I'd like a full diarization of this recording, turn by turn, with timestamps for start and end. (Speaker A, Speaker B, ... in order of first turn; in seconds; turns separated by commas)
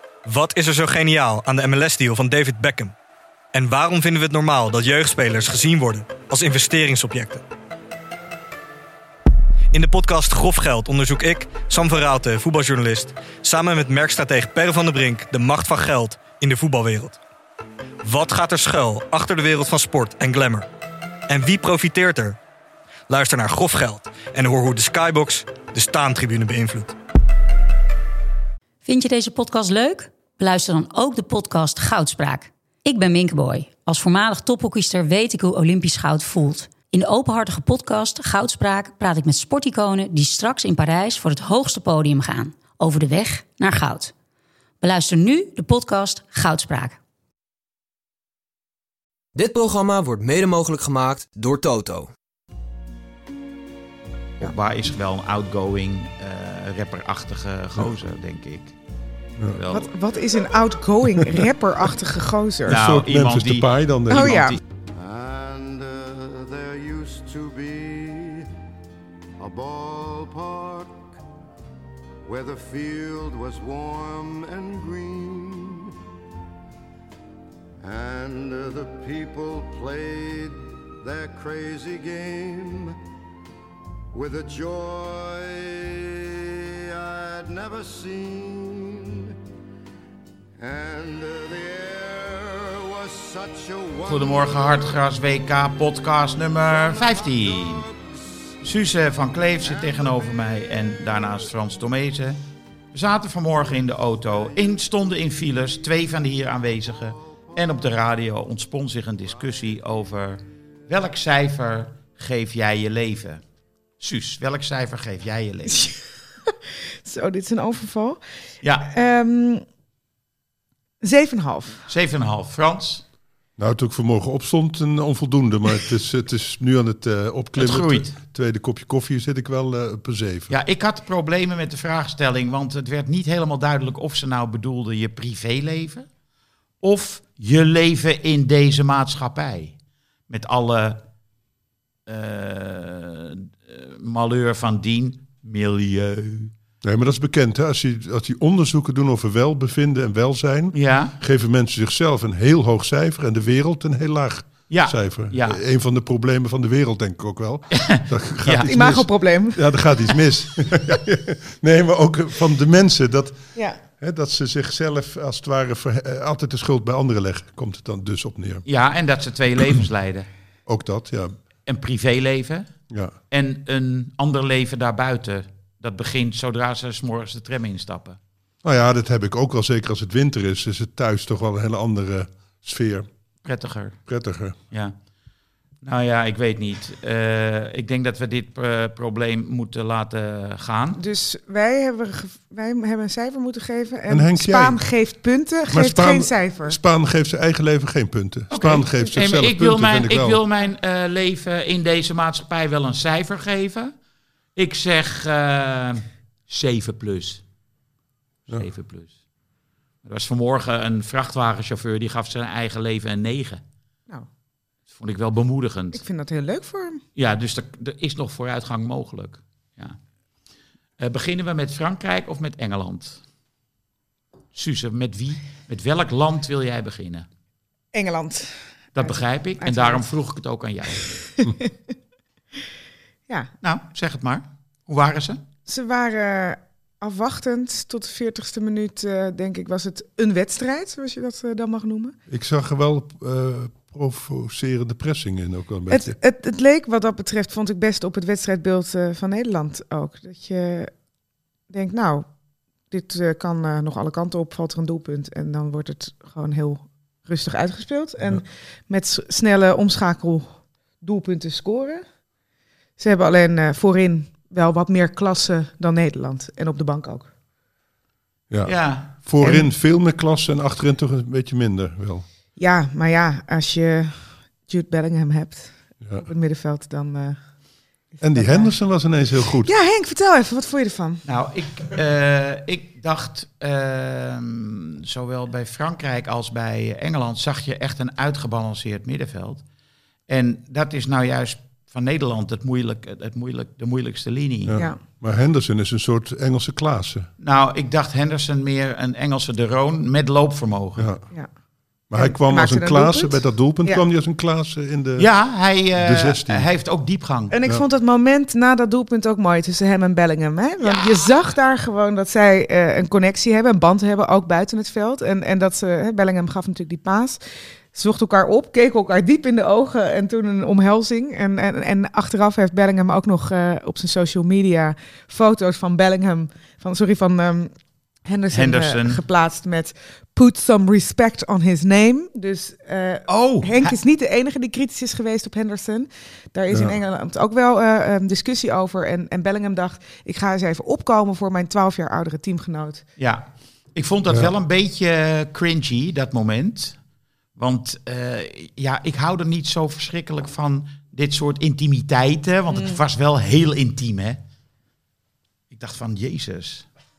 Speaker A: 0.2-2.9, Speaker A: 3.5-7.4, Speaker A: 9.7-17.2, Speaker A: 18.0-20.7, Speaker A: 21.3-22.4, Speaker A: 23.1-26.9, Speaker B: 28.8-44.1, Speaker B: 44.8-47.0, Speaker C: 49.4-52.1, Speaker D: 54.4-58.7, Speaker D: 59.5-59.9, Speaker E: 59.7-62.8, Speaker F: 62.6-64.5, Speaker D: 62.7-64.6, Speaker E: 64.1-64.6, Speaker G: 65.0-68.5, Speaker G: 69.4-71.2, Speaker G: 72.3-75.9, Speaker G: 77.8-83.0, Speaker G: 84.1-89.3, Speaker G: 90.6-94.9, Speaker D: 94.0-97.8, Speaker G: 96.7-98.5, Speaker D: 98.6-102.4, Speaker G: 99.7-100.3, Speaker D: 102.9-113.4, Speaker D: 114.0-115.9, Speaker E: 116.5-118.2, Speaker D: 118.6-118.9, Speaker E: 118.9-119.6, Speaker E: 121.0-121.8, Speaker D: 121.9-123.0, Speaker F: 123.6-130.5, Speaker D: 127.6-128.1, Speaker D: 130.5-136.1, Speaker D: 136.8-139.7, Speaker D: 140.3-141.0, Speaker D: 142.1-146.5, Speaker F: 146.8-163.4, Speaker D: 150.7-151.2, Speaker D: 154.7-155.6, Speaker D: 157.7-158.7, Speaker E: 158.7-159.6, Speaker F: 164.0-168.6, Speaker D: 168.7-170.3, Speaker F: 170.7-171.4, Speaker D: 171.7-172.7, Speaker F: 172.9-173.1, Speaker D: 173.3-178.2, Speaker F: 178.6-183.1, Speaker D: 183.4-184.0, Speaker F: 184.1-184.6, Speaker D: 185.8-191.0, Speaker E: 190.9-196.8, Speaker F: 194.1-194.8, Speaker F: 195.7-200.4, Speaker D: 198.5-203.9, Speaker D: 204.6-207.4, Speaker D: 208.5-209.1, Speaker D: 210.0-213.6, Speaker D: 214.9-216.0, Speaker E: 215.9-217.0, Speaker D: 217.2-220.0, Speaker D: 221.0-223.2, Speaker D: 224.5-227.2, Speaker E: 227.9-230.0, Speaker D: 228.9-231.2, Speaker E: 231.3-231.7, Speaker D: 233.6-235.4, Speaker E: 235.7-242.1, Speaker F: 242.3-246.2, Speaker E: 245.9-250.9, Speaker E: 251.7-252.3, Speaker E: 252.9-262.0, Speaker E: 263.0-267.3, Speaker F: 268.5-272.2, Speaker D: 268.6-269.1, Speaker E: 269.4-269.7, Speaker E: 272.6-277.4, Speaker E: 278.1-278.7, Speaker F: 278.2-279.7, Speaker E: 279.6-281.2, Speaker D: 281.2-289.6, Speaker D: 290.3-294.8, Speaker F: 294.6-297.3, Speaker D: 297.4-301.1, Speaker F: 301.0-301.2, Speaker F: 302.1-305.3, Speaker E: 302.1-304.0, Speaker D: 305.2-307.5, Speaker F: 305.9-306.7, Speaker E: 307.5-317.4, Speaker D: 310.8-311.1, Speaker E: 317.9-327.7, Speaker E: 328.2-343.0, Speaker D: 328.5-329.2, Speaker D: 333.3-333.9, Speaker F: 336.7-337.0, Speaker D: 343.2-347.0, Speaker D: 347.6-354.4, Speaker E: 352.7-353.0, Speaker D: 355.7-356.9